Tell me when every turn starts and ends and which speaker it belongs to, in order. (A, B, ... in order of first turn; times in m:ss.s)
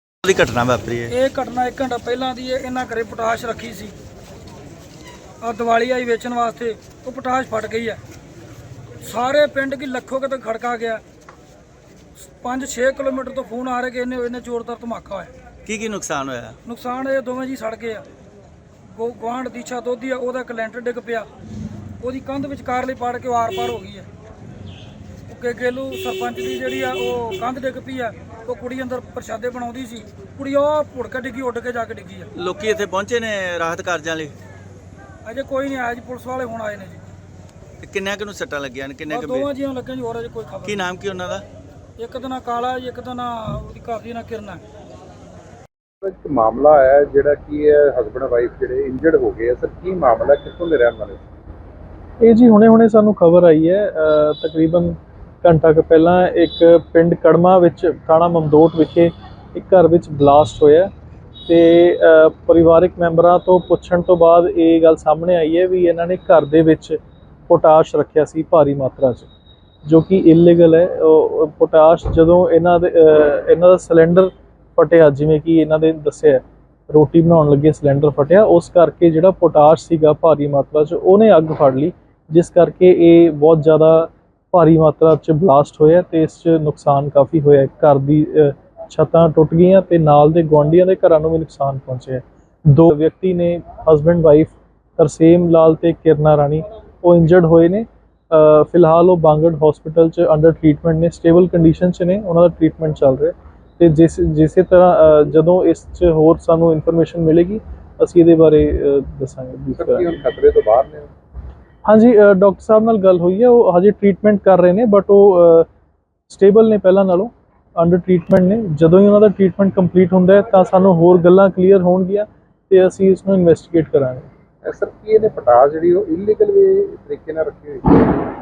0:00.2-0:01.1 A
0:01.1-0:03.9 B
0:05.4-0:08.0 B
0:09.0-0:11.0 B
0:12.4-0:15.3 B
0:15.7-0:16.6 A
0:16.7-0:18.0 B
0:18.9-0:21.3 B
0:22.0-0:24.1 B
0:25.3-0:32.3 B
0:32.4-0:34.4 A
0:35.2-0:37.1 B
0:37.8-0:39.5 A
0:39.1-0:40.8 B
0:40.6-0:41.4 A
0:42.0-0:44.6 B
0:46.0-0:51.3 C
0:52.2-1:00.9 D
1:01.5-1:09.3 D
1:09.8-1:50.2 D
1:49.8-1:51.1 C
1:51.9-1:55.7 D
1:56.3-2:04.3 D
2:04.6-2:08.0 C